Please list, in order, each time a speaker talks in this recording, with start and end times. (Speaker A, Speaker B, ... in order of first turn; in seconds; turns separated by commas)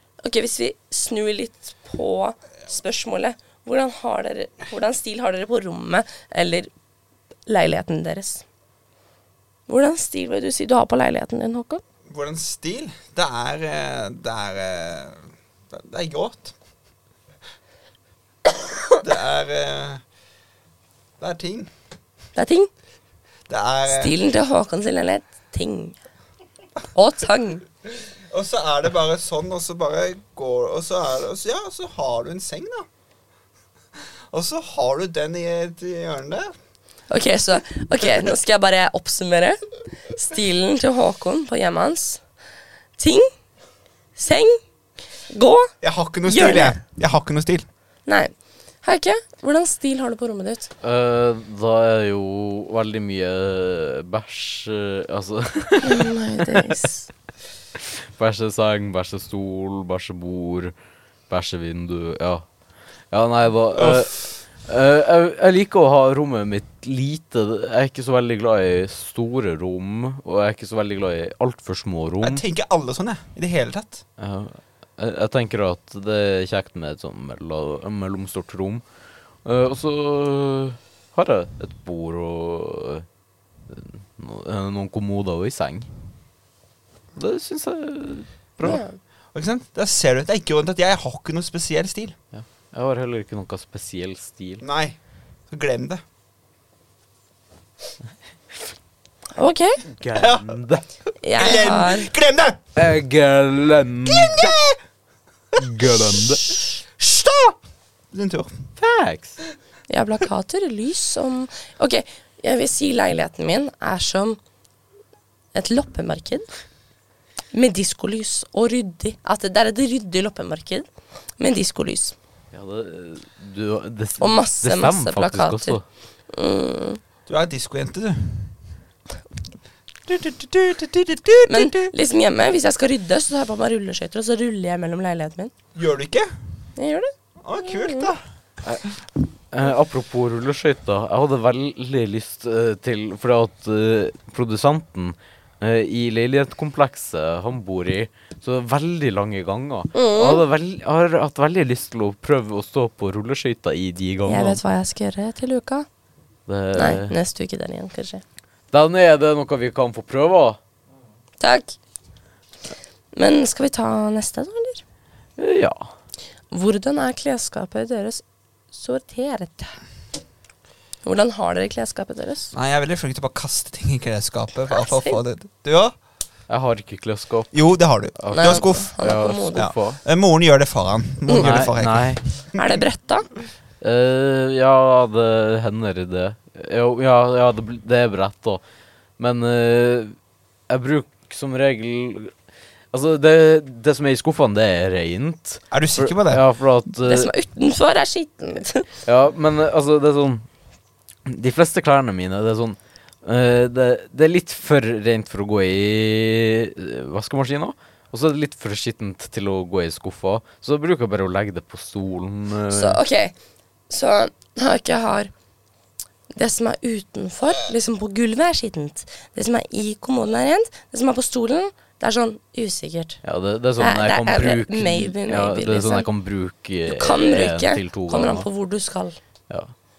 Speaker A: 0.2-6.7, Speaker A: 7.5-8.4, Speaker A: 9.7-11.8, Speaker B: 12.1-16.6, Speaker B: 19.0-20.0, Speaker B: 21.2-21.7, Speaker A: 22.4-22.7, Speaker B: 23.5-24.1, Speaker A: 23.9-26.0, Speaker A: 26.9-27.6, Speaker B: 28.3-32.9, Speaker B: 34.3-36.5, Speaker A: 37.1-42.2, Speaker A: 43.0-43.3, Speaker A: 44.2-44.6, Speaker A: 45.3-45.7, Speaker B: 45.8-47.7, Speaker A: 46.3-46.8, Speaker A: 48.1-50.7, Speaker C: 50.8-56.7, Speaker A: 55.8-57.1, Speaker C: 57.8-60.7, Speaker C: 61.3-62.5, Speaker C: 63.1-72.4, Speaker B: 63.8-64.1, Speaker B: 72.2-74.0, Speaker C: 74.2-78.8, Speaker C: 79.5-83.1, Speaker C: 83.7-85.9, Speaker C: 87.2-88.8, Speaker A: 88.6-89.0, Speaker B: 89.3-92.2, Speaker C: 92.3-94.6, Speaker B: 94.6-95.0, Speaker B: 95.5-96.0, Speaker A: 99.4-99.8, Speaker C: 100.0-100.8, Speaker B: 100.1-100.5, Speaker A: 101.2-102.1, Speaker B: 101.4-102.6, Speaker C: 102.8-104.6, Speaker B: 104.1-104.8, Speaker B: 105.5-107.6, Speaker C: 105.6-106.5, Speaker B: 108.1-108.5, Speaker C: 108.8-109.4, Speaker A: 109.9-114.4, Speaker A: 115.5-116.5, Speaker A: 117.5-120.9, Speaker A: 121.4-122.2, Speaker C: 122.5-125.8, Speaker A: 124.2-125.8, Speaker A: 126.3-127.0, Speaker B: 127.3-128.5, Speaker B: 130.1-131.9, Speaker A: 131.5-135.5, Speaker B: 135.8-136.3, Speaker A: 136.8-138.1, Speaker B: 137.4-138.2, Speaker C: 139.5-154.6, Speaker A: 149.9-150.4, Speaker A: 154.3-155.9, Speaker C: 156.5-157.2, Speaker A: 156.7-158.2, Speaker C: 158.7-160.6, Speaker A: 161.4-161.8, Speaker A: 163.1-164.8, Speaker C: 165.4-165.9, Speaker A: 166.5-169.7, Speaker A: 171.0-172.5, Speaker B: 172.5-175.9, Speaker A: 174.7-175.2, Speaker C: 176.5-177.6, Speaker B: 177.5-178.9, Speaker C: 178.2-180.0, Speaker A: 178.3-179.7, Speaker B: 179.6-182.8, Speaker C: 181.3-182.2, Speaker A: 182.6-183.3, Speaker C: 183.8-188.6, Speaker C: 189.2-190.2, Speaker C: 190.7-192.3, Speaker C: 192.9-197.3, Speaker B: 195.7-196.4, Speaker A: 197.0-198.9, Speaker C: 199.1-200.5, Speaker C: 201.3-213.0, Speaker A: 212.7-213.3, Speaker A: 213.9-215.3, Speaker A: 216.4-223.2, Speaker C: 223.2-228.5, Speaker A: 223.8-226.1, Speaker A: 226.9-229.2